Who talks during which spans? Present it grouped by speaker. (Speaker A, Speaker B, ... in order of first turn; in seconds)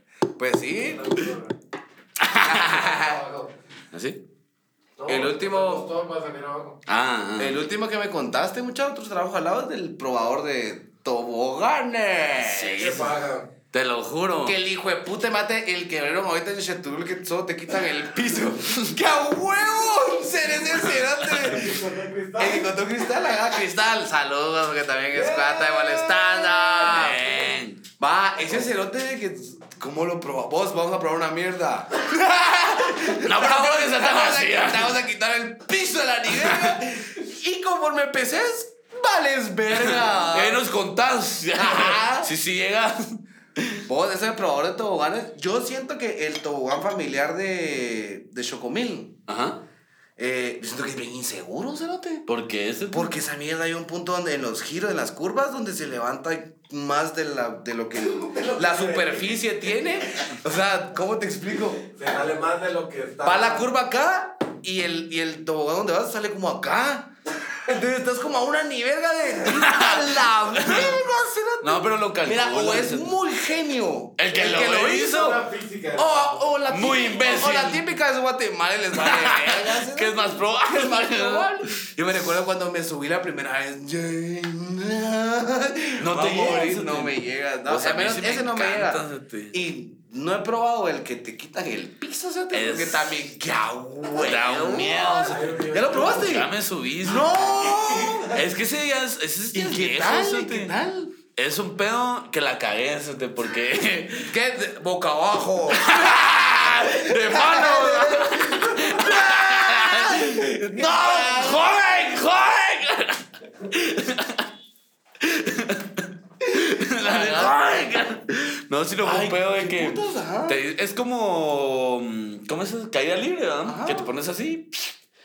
Speaker A: 0.4-1.3, 2.4-3.3, 5.1-5.9, 7.4-13.1, 14.4-27.4, 28.0-40.6, 41.5-42.3, 43.9-49.2, 50.2-52.3, 52.9-61.9, 63.2-75.3, 76.0-96.5, 97.0-98.4, 99.5-101.1, 104.2-111.8, 116.5-117.6, 119.0-120.6, 123.7-124.1
Speaker B: 0.8-1.5, 3.0-3.4, 5.0-6.8, 12.7-13.5, 21.4-22.8, 25.1-26.4, 58.1-59.4, 61.8-63.7, 74.9-76.4, 95.1-96.4
Speaker C: 2.2-3.0, 3.9-4.2, 6.9-7.6, 12.4-13.1, 13.7-14.6, 26.6-27.8, 32.9-35.0, 36.3-36.8, 39.7-43.8, 49.3-49.6, 52.3-53.1, 69.5-71.0, 71.6-73.1, 74.2-75.5, 76.7-77.8, 78.9-81.7, 86.0-87.2, 87.7-89.5, 92.5-93.1, 94.2-100.7, 101.3-104.3, 105.7-114.5, 115.2-125.0